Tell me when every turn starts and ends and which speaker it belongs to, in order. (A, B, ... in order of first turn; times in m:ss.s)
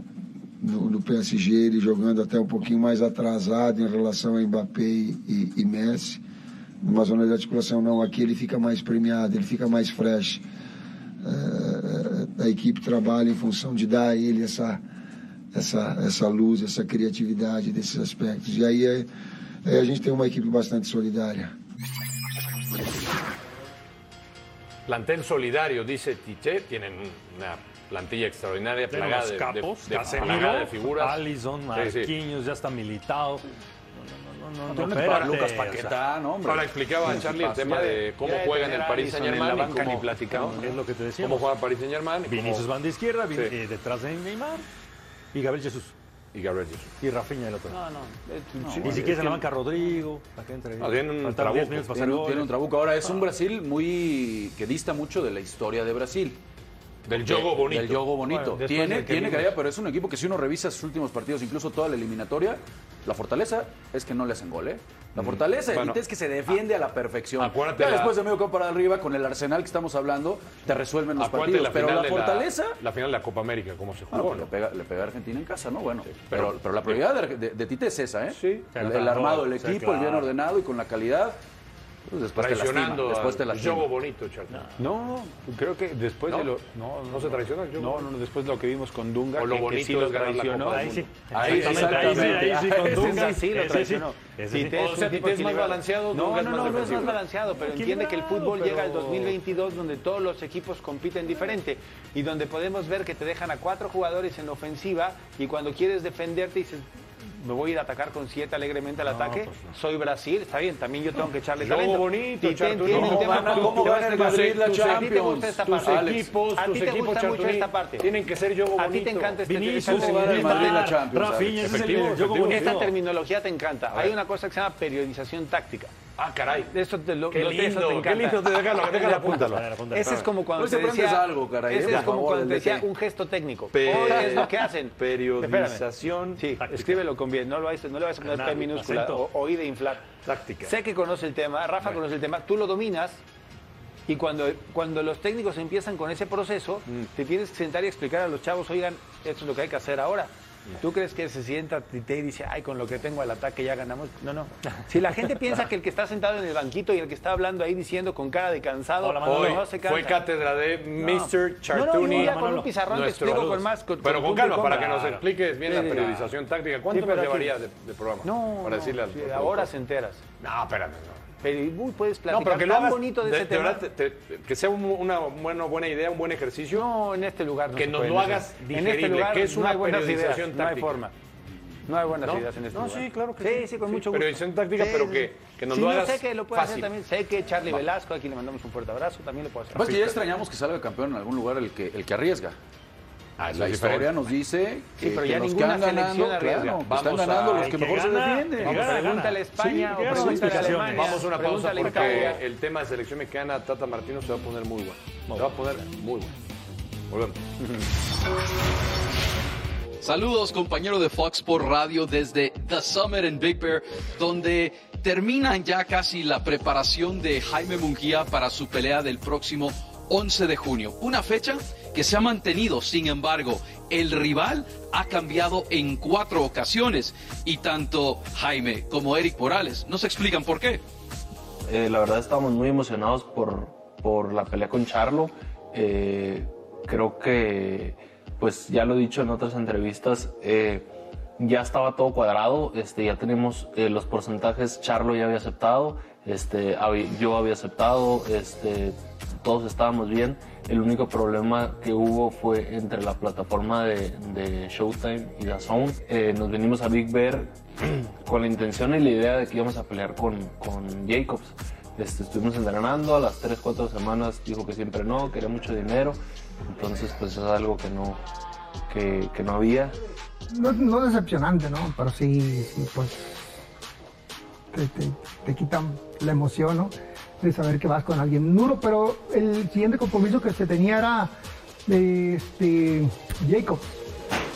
0:00.6-0:06.2 A
0:06.8-0:10.4 A
0:11.2-0:14.8 A
0:15.5-0:19.1 A
0:19.6-0:21.5 A
0:24.9-0:31.2 B
0:28.9-0:33.4 C
0:31.7-0:32.1 B
0:34.0-0:35.9 C
0:34.7-0:37.6 D
0:36.4-0:40.6 B
0:37.1-0:40.8 E
0:40.5-0:41.5 C
0:41.2-0:42.7 B
0:42.3-0:44.6 C
0:45.3-0:45.9 C
0:46.3-0:46.9 B
0:47.0-0:47.8 C
0:47.7-0:49.4 E
0:48.6-0:49.1 D
0:48.8-0:52.5 C
0:50.8-0:51.8 B
0:51.8-0:56.4 D
0:57.1-0:58.0 B
0:57.1-1:12.8 D
0:58.2-0:59.5 E
1:05.2-1:06.0 B
1:07.4-1:08.2 B
1:11.2-1:14.5 B
1:14.1-1:21.4 D
1:16.1-1:17.0 B
1:18.3-1:18.7 B
1:18.7-1:20.3 C
1:22.1-1:23.9 D
1:22.3-1:24.6 B
1:24.5-1:24.7 C
1:24.8-1:31.0 E
1:27.1-1:28.1 B
1:29.4-1:32.5 B
1:30.7-1:34.8 C
1:31.3-1:33.4 D
1:31.8-1:32.1 E
1:32.7-1:58.1 E
1:34.7-1:37.2 B
1:37.6-1:39.4 C
1:49.0-1:49.6 C
1:51.6-1:54.9 B
1:52.9-1:56.3 D
1:55.6-1:59.4 B
1:58.8-2:00.9 E
1:59.5-2:02.9 C
1:59.8-2:01.9 D
2:01.6-2:02.8 B
2:02.5-2:05.9 E
2:03.9-2:04.2 B
2:06.2-2:06.7 B
2:06.7-2:15.8 E
2:07.3-2:10.3 B
2:09.3-2:10.2 C
2:10.5-2:12.8 D
2:11.8-2:12.1 B
2:13.7-2:16.4 B
2:16.4-2:20.1 E
2:16.6-2:17.0 C
2:18.2-2:19.2 C
2:20.2-2:20.7 B
2:20.6-2:23.2 E
2:24.1-2:40.2 E
2:39.0-2:39.6 C
2:39.2-2:49.7 B
2:41.0-2:45.1 E
2:41.8-2:42.7 C
2:44.7-2:45.2 C
2:45.6-2:46.2 E
2:45.9-2:46.2 C
2:46.9-2:47.5 E
2:48.2-2:50.2 E
2:50.4-2:51.2 B
2:51.4-2:53.8 E
2:52.3-2:56.9 B
2:56.7-3:01.1 E
2:57.7-3:01.0 B
3:01.9-3:10.1 E
3:02.2-3:06.9 B
3:09.7-3:12.5 D
3:13.4-3:14.2 B
3:13.5-3:19.0 D
3:15.0-3:16.8 E
3:16.8-3:17.8 B
3:17.5-3:21.2 C
3:18.6-3:22.4 E
3:20.1-3:26.3 B
3:20.1-3:20.6 D
3:21.8-3:22.3 C
3:27.1-3:27.4 B
3:30.0-3:50.8 F
3:51.6-4:00.8 G
4:01.4-4:28.2 G
4:28.9-4:30.0 G
4:30.5-4:33.6 H
4:34.7-4:41.3 H
4:41.8-4:43.9 H